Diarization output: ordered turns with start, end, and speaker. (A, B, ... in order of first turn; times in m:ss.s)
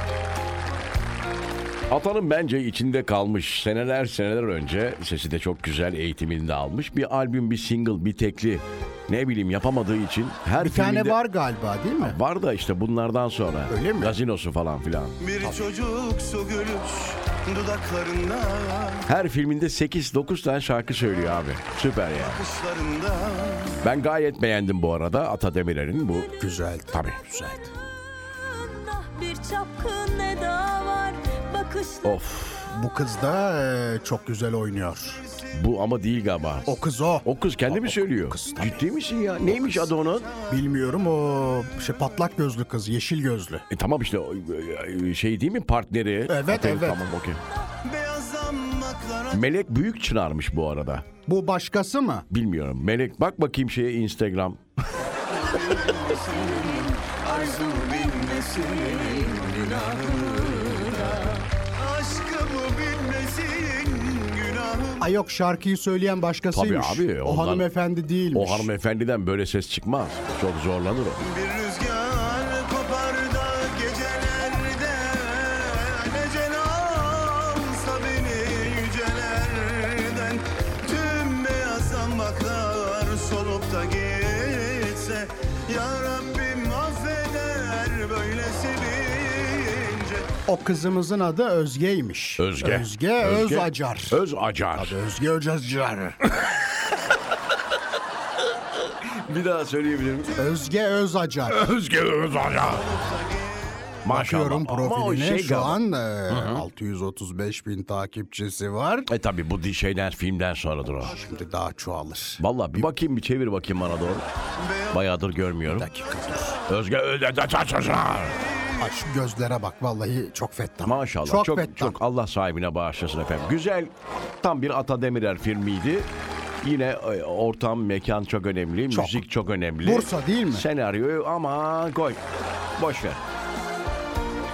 0:01.9-0:11.2 A
0:10.6-0:12.2 B
0:12.0-0:15.2 A
0:13.7-0:14.2 B
0:15.2-0:19.1 C
0:15.4-0:15.7 B
0:19.1-0:22.5 A
0:22.1-0:23.8 C
0:23.8-0:26.3 A
0:26.4-0:27.7 B
0:26.9-0:27.2 A
0:28.4-0:32.2 D
0:32.0-0:32.7 A
0:32.7-0:35.2 B
0:35.5-0:40.3 A
0:36.6-0:39.9 B
0:40.0-0:40.5 C
0:40.5-0:43.6 B
0:43.7-0:47.4 A
0:46.3-0:47.0 B
0:47.8-0:49.4 C
0:49.3-0:51.0 A
0:51.2-0:52.3 B
0:52.3-0:54.6 A
0:55.3-1:05.1 C
0:56.4-1:01.4 D
1:05.0-1:08.7 B
1:06.5-1:07.6 A
1:08.3-1:11.2 A
1:11.2-1:30.3 C
1:30.4-1:34.2 B
1:32.4-1:34.9 A
1:34.7-1:36.2 B
1:39.1-1:40.4 A
1:40.4-1:41.7 B
1:41.5-1:42.9 A
1:42.6-1:43.8 C
1:44.0-1:46.6 A
1:44.1-1:49.1 B
1:49.1-1:51.2 A
1:51.0-1:52.8 B
1:52.4-1:54.2 A
1:54.6-1:54.9 C
1:54.9-1:55.9 A
1:55.7-1:56.6 B
1:56.6-1:58.4 A
1:58.8-2:02.0 B
2:00.8-2:06.1 A
2:06.6-2:12.2 A
2:08.9-2:09.3 B
2:09.8-2:10.6 B
2:12.8-2:13.2 A